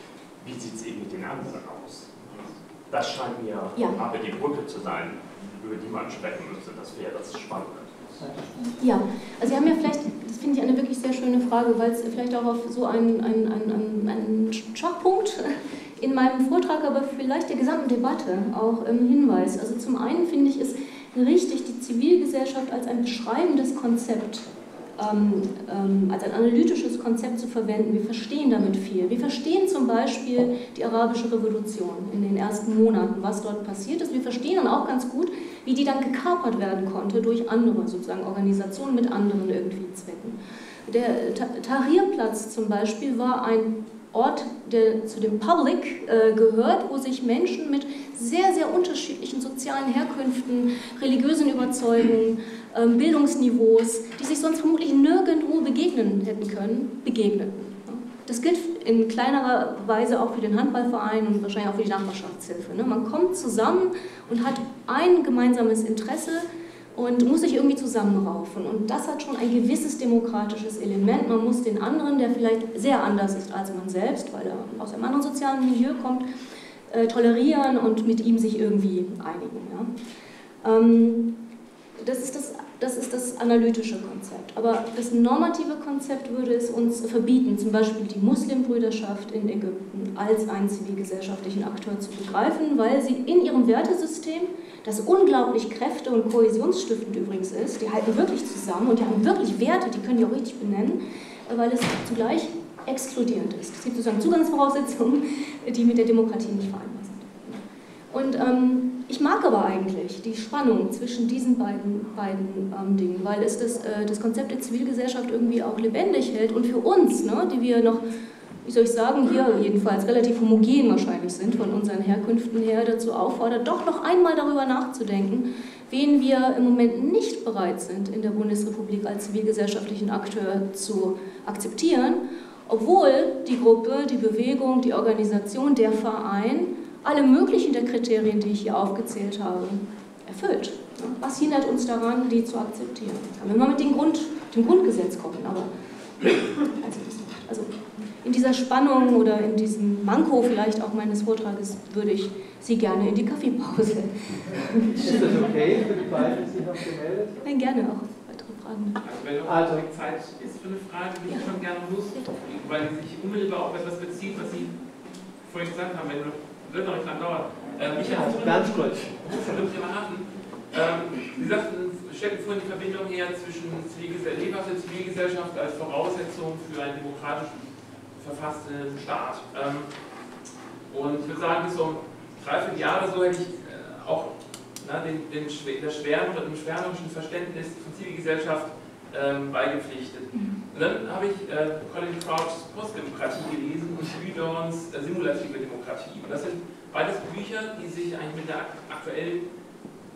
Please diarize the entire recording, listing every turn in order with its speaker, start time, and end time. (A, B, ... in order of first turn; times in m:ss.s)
0:00.4-0:08.1 A
0:03.8-0:04.0 B
0:08.2-0:08.6 C
0:08.7-1:16.2 B
1:16.9-1:19.9 B
1:20.6-1:21.4 B
1:22.0-1:58.0 B
1:58.6-2:35.2 B
2:34.8-2:37.4 C
2:37.4-2:39.0 B
2:39.0-2:44.8 D
2:39.4-2:39.9 C
2:45.4-2:59.9 D
2:47.9-2:49.7 C
3:00.9-3:19.5 D